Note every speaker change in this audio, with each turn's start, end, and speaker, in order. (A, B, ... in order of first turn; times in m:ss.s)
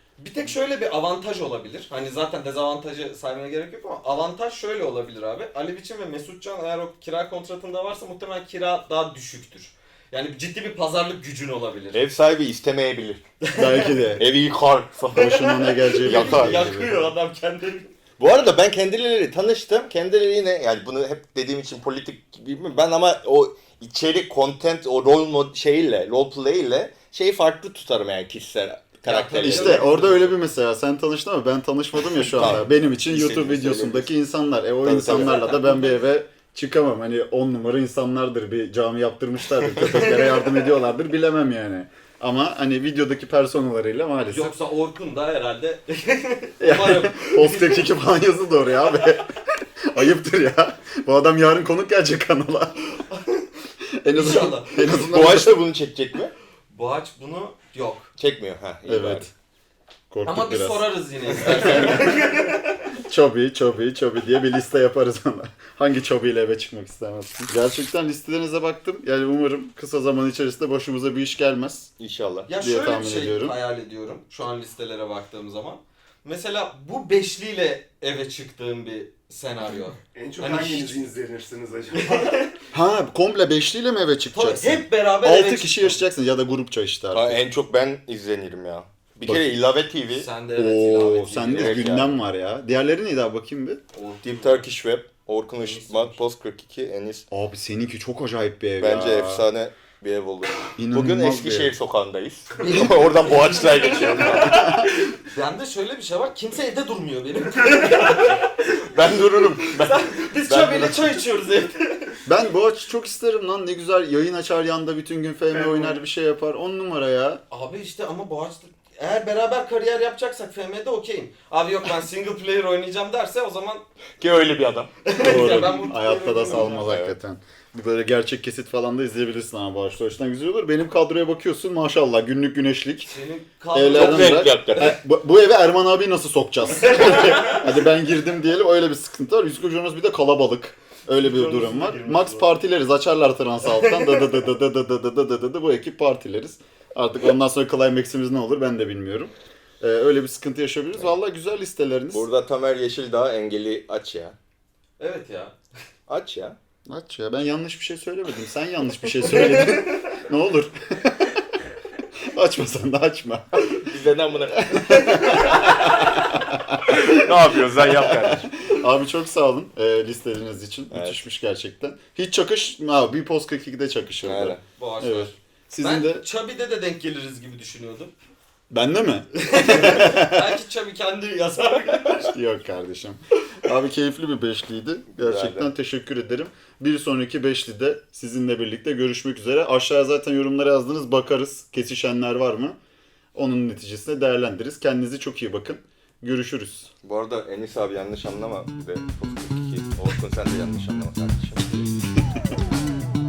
0:00.2-0:12.0 A
0:11.9-0:13.2 B
0:13.4-0:14.1 A
0:13.6-0:14.2 C
0:14.2-0:15.4 B
0:15.1-0:17.1 C
0:15.2-0:17.9 A
0:16.0-0:16.7 B
0:18.2-0:29.9 B
0:29.1-0:30.4 A
0:29.4-0:44.5 C
0:32.2-0:34.1 B
0:34.8-0:35.6 B
0:39.9-0:40.5 A
0:44.3-0:47.8 A
0:46.6-0:49.3 C
0:49.9-0:52.8 C
0:53.0-0:53.3 A
0:54.0-0:55.6 C
0:54.1-0:54.9 A
0:54.8-0:56.3 B
0:56.7-0:58.1 A
0:58.2-0:59.3 B
0:58.9-0:59.3 C
1:00.1-1:00.8 C
1:00.2-1:02.6 A
1:01.5-1:02.2 C
1:01.5-1:02.0 B
1:03.1-1:11.9 C
1:12.0-1:12.5 B
1:12.5-1:21.0 A
1:12.6-1:13.6 C
1:20.2-1:22.5 D
1:21.9-1:22.5 A
1:22.7-1:27.4 C
1:24.3-1:26.0 A
1:27.1-1:30.3 B
1:29.3-1:29.6 C
1:30.1-1:31.8 A
1:30.6-1:33.8 C
1:31.4-1:32.1 B
1:33.9-1:34.6 A
1:34.2-1:37.3 B
1:35.6-1:36.2 A
1:37.3-1:39.5 C
1:38.8-1:44.8 B
1:40.8-1:41.7 C
1:42.6-1:48.7 A
1:44.5-1:44.9 C
1:48.7-1:51.1 B
1:49.6-1:52.2 A
1:52.3-1:57.4 C
1:57.5-2:03.8 A
2:04.2-2:05.7 B
2:05.0-2:06.9 A
2:05.2-2:13.1 C
2:06.5-2:07.2 B
2:13.1-2:14.6 A
2:13.7-2:32.3 C
2:13.9-2:15.0 B
2:16.8-2:17.6 A
2:21.2-2:22.5 A
2:23.7-2:24.3 A
2:32.1-2:34.4 B
2:35.0-2:35.6 A
2:36.1-2:36.6 B
2:36.9-2:41.3 C
2:39.3-2:39.9 A
2:42.3-2:43.7 C
2:43.6-2:44.9 B
2:44.6-2:47.2 C
2:46.9-2:48.5 B
2:48.0-2:56.2 C
2:50.9-2:51.2 B
2:54.2-2:54.6 B
2:54.8-2:58.1 A
2:58.7-3:00.4 C
2:59.4-3:02.3 A
3:02.2-3:12.8 C
3:05.1-3:05.7 B
3:13.4-3:16.9 C
3:17.0-3:21.9 B